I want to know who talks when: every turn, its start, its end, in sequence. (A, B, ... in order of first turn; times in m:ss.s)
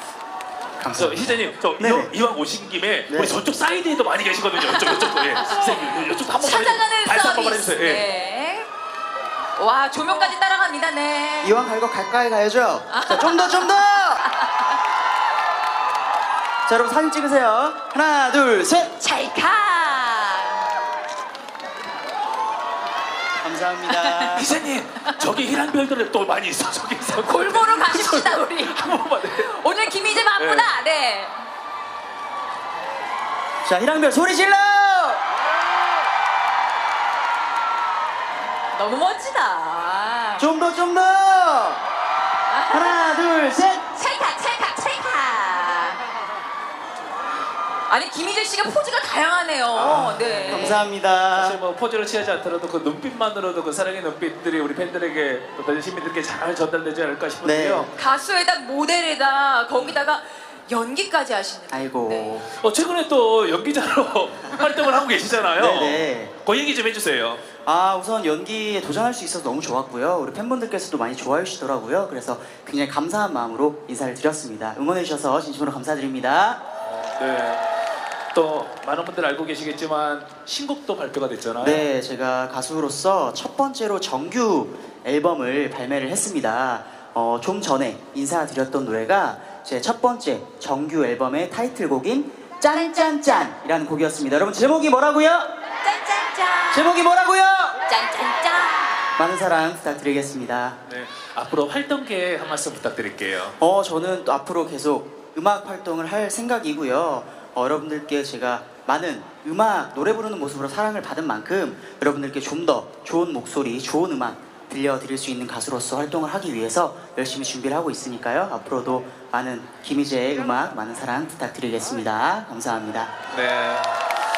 0:00.8-0:02.1 A
0:00.9-0:08.0 B
0:03.1-0:03.4 A
0:04.7-0:05.7 C
0:06.4-0:08.7 C
0:09.6-0:11.6 C
0:11.4-0:14.2 A
0:12.9-0:14.6 C
0:16.7-0:18.9 A
0:19.0-0:20.6 C
0:23.4-0:24.5 A
0:23.9-0:24.4 C
0:24.3-0:29.5 B
0:27.2-0:31.4 C
0:30.4-0:30.7 B
0:33.6-0:35.2 A
0:38.7-0:40.5 C
0:40.4-0:41.8 A
0:42.5-0:43.1 C
0:42.7-0:43.8 A
0:43.9-0:46.0 C
0:47.9-0:50.8 C
0:49.8-0:51.6 A
0:49.8-0:50.7 B
0:51.3-0:57.9 B
0:57.4-0:57.9 A
0:57.9-1:02.4 C
1:01.7-1:02.5 A
1:02.6-1:07.4 B
1:05.6-1:06.3 A
1:07.6-1:16.6 A
1:16.8-1:17.6 B
1:18.3-1:21.8 B
1:21.6-1:35.5 A
1:32.8-1:33.3 C
1:35.8-1:36.9 C
1:36.7-1:37.8 A
1:37.9-1:39.0 C
1:39.2-1:40.8 A
1:40.9-1:43.6 B
1:43.6-2:03.1 A
2:03.3-2:03.9 B